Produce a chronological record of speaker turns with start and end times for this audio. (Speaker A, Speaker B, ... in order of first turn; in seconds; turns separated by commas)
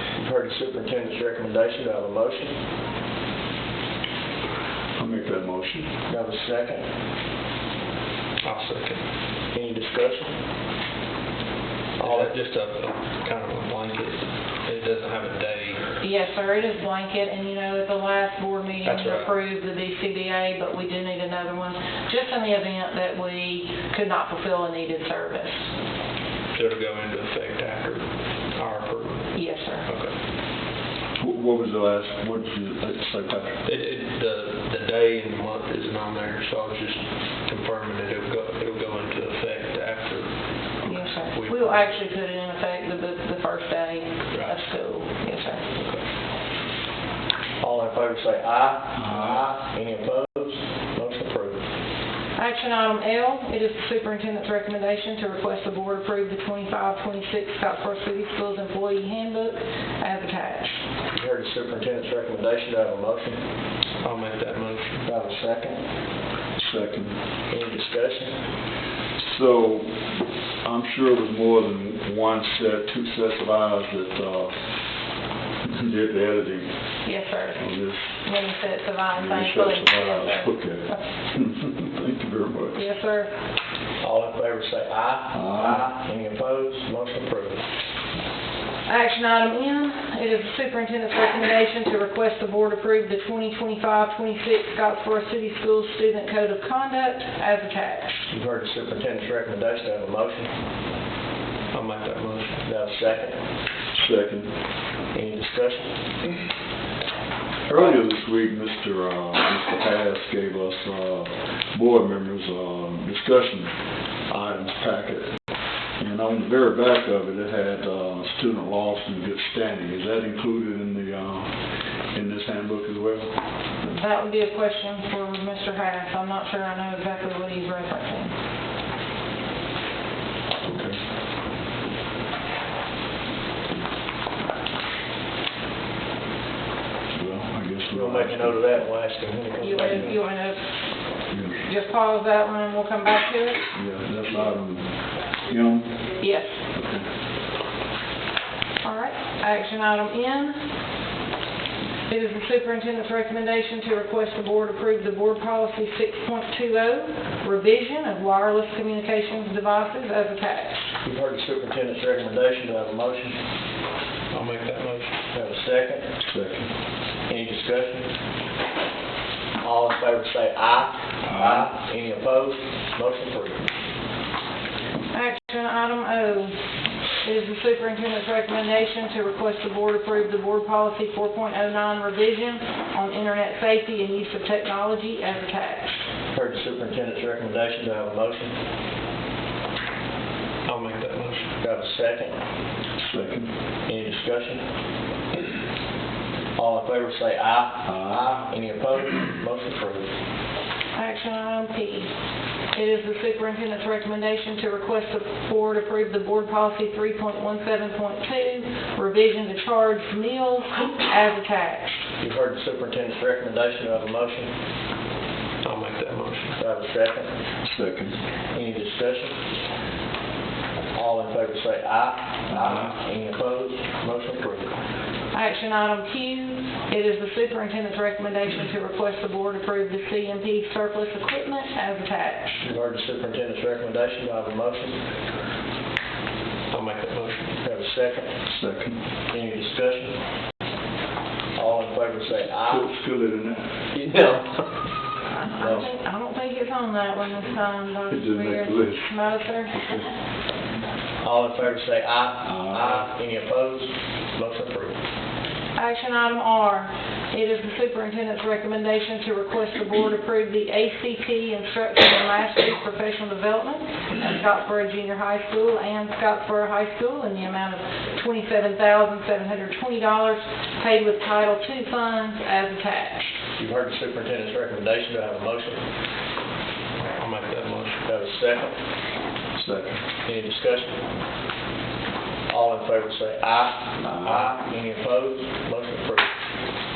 Speaker A: 0.2-2.5, Speaker B: 5.0-5.9, Speaker A: 6.1-6.8, Speaker C: 8.4-9.0, Speaker A: 9.5-10.3, Speaker C: 12.0-16.0, Speaker A: 12.0-12.3, Speaker D: 16.0-25.7, Speaker C: 18.8-19.3, Speaker C: 26.5-30.1, Speaker D: 29.3-29.9, Speaker B: 31.2-33.6, Speaker C: 33.6-40.3, Speaker D: 40.8-45.6, Speaker C: 40.8-42.0, Speaker C: 44.3-44.6, Speaker C: 45.8-46.0, Speaker A: 47.6-51.6, Speaker D: 52.4-60.8, Speaker A: 61.1-63.4, Speaker C: 64.0-65.0, Speaker A: 65.0-65.8, Speaker B: 66.6-67.2, Speaker A: 67.5-68.3, Speaker B: 69.2-70.0, Speaker B: 70.6-74.5, Speaker B: 75.6-76.7, Speaker D: 77.0-81.0, Speaker B: 77.5-78.2, Speaker B: 79.1-82.8, Speaker D: 82.7-83.3, Speaker A: 84.0-87.7, Speaker B: 85.3-85.9, Speaker D: 88.9-98.2, Speaker A: 98.3-100.5, Speaker C: 101.7-102.6, Speaker A: 102.6-103.4, Speaker B: 103.9-104.5, Speaker A: 105.1-105.9, Speaker B: 107.7-113.7, Speaker B: 114.3-115.3, Speaker B: 116.0-121.6, Speaker B: 122.1-123.3, Speaker D: 124.0-128.3, Speaker B: 130.6-131.0, Speaker B: 137.1-138.6, Speaker A: 137.9-140.2, Speaker D: 139.6-140.7, Speaker B: 141.3-141.7, Speaker D: 141.6-143.6, Speaker B: 143.7-144.9, Speaker B: 145.5-146.1, Speaker D: 146.2-146.6, Speaker D: 148.8-150.7, Speaker D: 152.1-160.9, Speaker A: 161.0-163.4, Speaker C: 164.3-165.1, Speaker A: 165.3-166.1, Speaker B: 166.2-166.7, Speaker A: 167.3-168.1, Speaker A: 169.6-173.6, Speaker B: 171.3-171.7, Speaker D: 175.1-176.6, Speaker D: 177.2-186.0, Speaker A: 186.3-188.5, Speaker C: 190.6-191.5, Speaker A: 191.6-192.4, Speaker B: 193.0-193.5, Speaker A: 193.9-194.6, Speaker A: 196.6-200.1, Speaker B: 197.8-198.4, Speaker D: 200.9-202.1, Speaker D: 202.7-212.0, Speaker A: 212.2-214.5, Speaker C: 215.6-216.6, Speaker A: 216.6-217.3, Speaker B: 217.6-218.2, Speaker A: 218.5-219.3, Speaker A: 220.9-224.8, Speaker B: 222.5-222.9, Speaker D: 225.3-232.6, Speaker A: 232.6-235.0, Speaker C: 236.7-237.6, Speaker A: 237.6-238.4, Speaker B: 238.5-239.0, Speaker A: 239.3-240.2, Speaker A: 241.6-242.9, Speaker B: 242.5-243.7, Speaker C: 243.9-244.6, Speaker D: 245.3-250.0, Speaker A: 245.5-245.9, Speaker B: 248.1-249.1, Speaker B: 249.8-250.1, Speaker A: 251.2-255.0, Speaker B: 252.4-253.1, Speaker D: 255.8-273.3, Speaker A: 273.6-275.8, Speaker C: 277.1-278.0, Speaker A: 278.0-278.7, Speaker B: 279.6-280.1, Speaker A: 280.2-281.0, Speaker A: 282.5-286.3, Speaker B: 284.0-284.6